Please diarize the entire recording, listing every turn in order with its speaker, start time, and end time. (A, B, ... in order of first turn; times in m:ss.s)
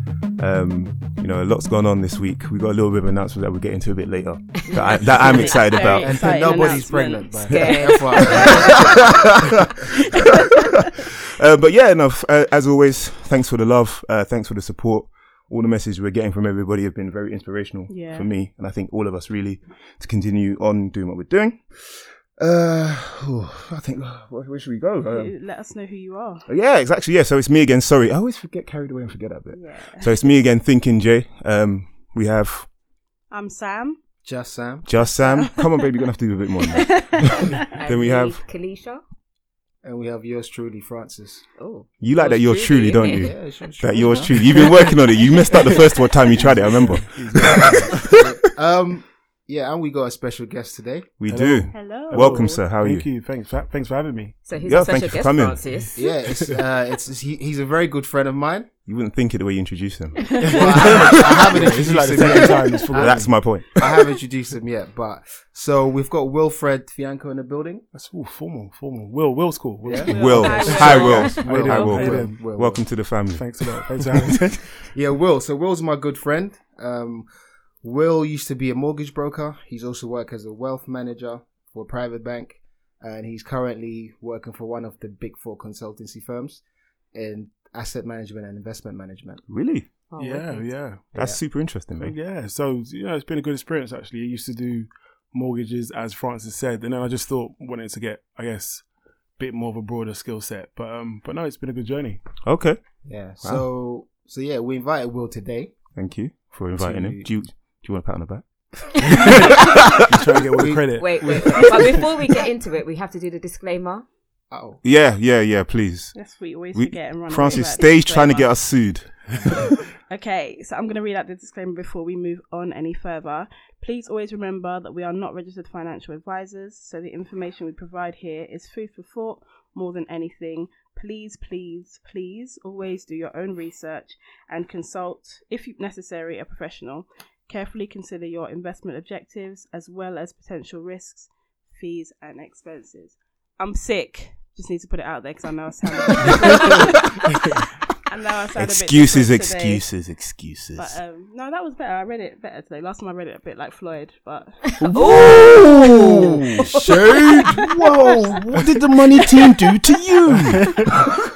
0:00.4-0:06.8 A
0:04.6-0:05.6 B
0:04.7-0:09.1 C
0:05.8-0:08.9 D
0:07.5-0:09.1 B
0:08.4-0:25.3 A
0:17.9-0:18.3 C
0:25.1-0:26.5 C
0:26.5-0:32.7 A
0:29.5-0:30.4 C
0:33.3-0:34.0 C
0:34.2-0:35.0 D
0:34.8-0:38.4 A
0:35.2-0:36.0 C
0:36.6-0:37.7 C
0:37.7-0:39.0 B
0:39.8-0:41.4 D
0:41.6-0:43.3 B
0:42.0-0:48.4 A
0:43.1-0:44.7 D
0:46.3-0:48.0 E
0:47.4-0:51.1 D
0:51.2-0:53.1 A
0:51.3-0:54.4 E
0:51.7-0:52.6 C
0:54.5-0:56.0 B
0:54.6-0:55.7 A
0:56.0-0:58.7 D
0:58.9-1:01.6 A
1:00.4-1:03.4 E
1:00.4-1:07.9 D
1:02.9-1:04.0 A
1:07.9-1:12.5 E
1:09.8-1:12.9 D
1:10.0-1:11.3 C
1:10.1-1:13.9 A
1:10.4-1:11.4 B
1:13.3-1:14.8 E
1:14.8-1:17.3 D
1:17.8-1:29.4 D
1:29.5-1:29.9 A
1:30.1-1:30.7 B
1:30.2-1:31.0 E
1:31.2-1:32.2 A
1:32.0-1:38.8 E
1:39.4-1:42.2 E
1:42.4-1:42.8 A
1:43.0-1:45.8 D
1:46.0-1:50.2 A
1:46.8-1:47.1 E
1:47.0-1:47.3 D
1:49.2-1:52.0 E
1:50.6-1:52.0 D
1:51.0-1:54.1 B
1:54.5-1:54.8 D
1:54.8-1:56.2 A
1:56.1-1:58.8 C
1:56.7-1:59.7 A
1:59.5-2:27.3 C
2:28.1-2:29.8 C
2:28.6-2:31.0 A
2:30.8-2:35.3 C
2:34.8-2:40.9 A
2:34.8-2:38.1 B
2:35.8-2:37.4 D